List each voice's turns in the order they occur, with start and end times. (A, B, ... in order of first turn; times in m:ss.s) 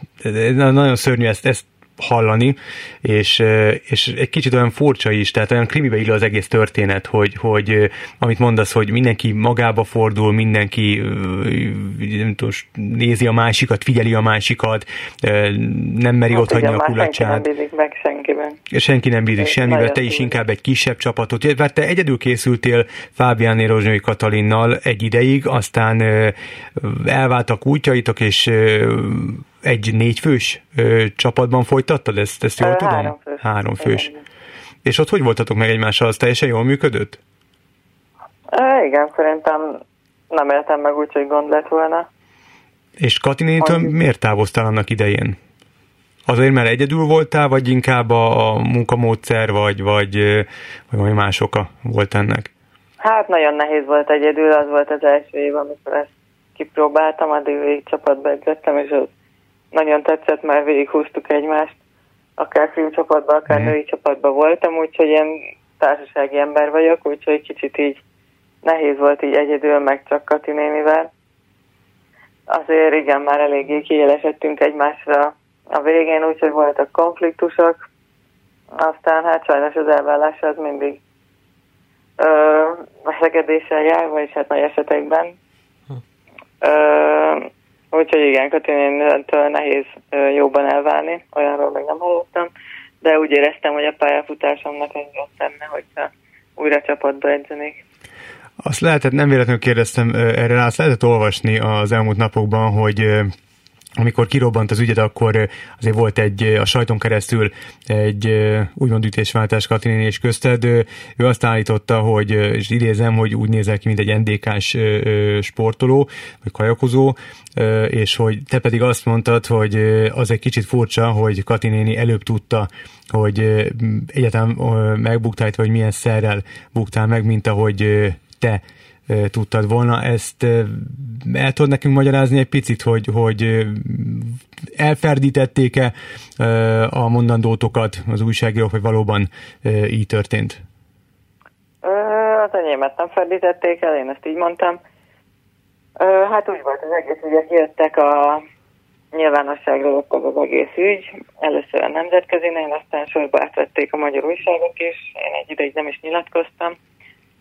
0:00.2-0:17.4 A
0:16.3-0:18.6 B
0:18.7-0:34.1 A
0:19.4-0:20.4 B
0:32.6-0:34.2 B
0:34.8-0:37.2 A
0:38.5-0:42.1 B
0:43.0-0:45.4 A
0:43.6-0:43.9 B
0:46.2-0:52.5 A
0:53.0-0:59.1 B
0:59.7-1:01.8 B
1:02.4-1:08.0 B
1:08.6-1:11.1 B
1:12.5-1:17.8 B
1:18.8-1:21.0 B
1:22.2-1:25.4 B
1:26.6-1:32.5 B
1:33.0-1:37.8 B
1:38.6-1:43.3 A
1:44.0-2:20.6 A
2:21.8-2:24.8 B
2:26.0-2:28.4 B
2:29.1-2:36.8 B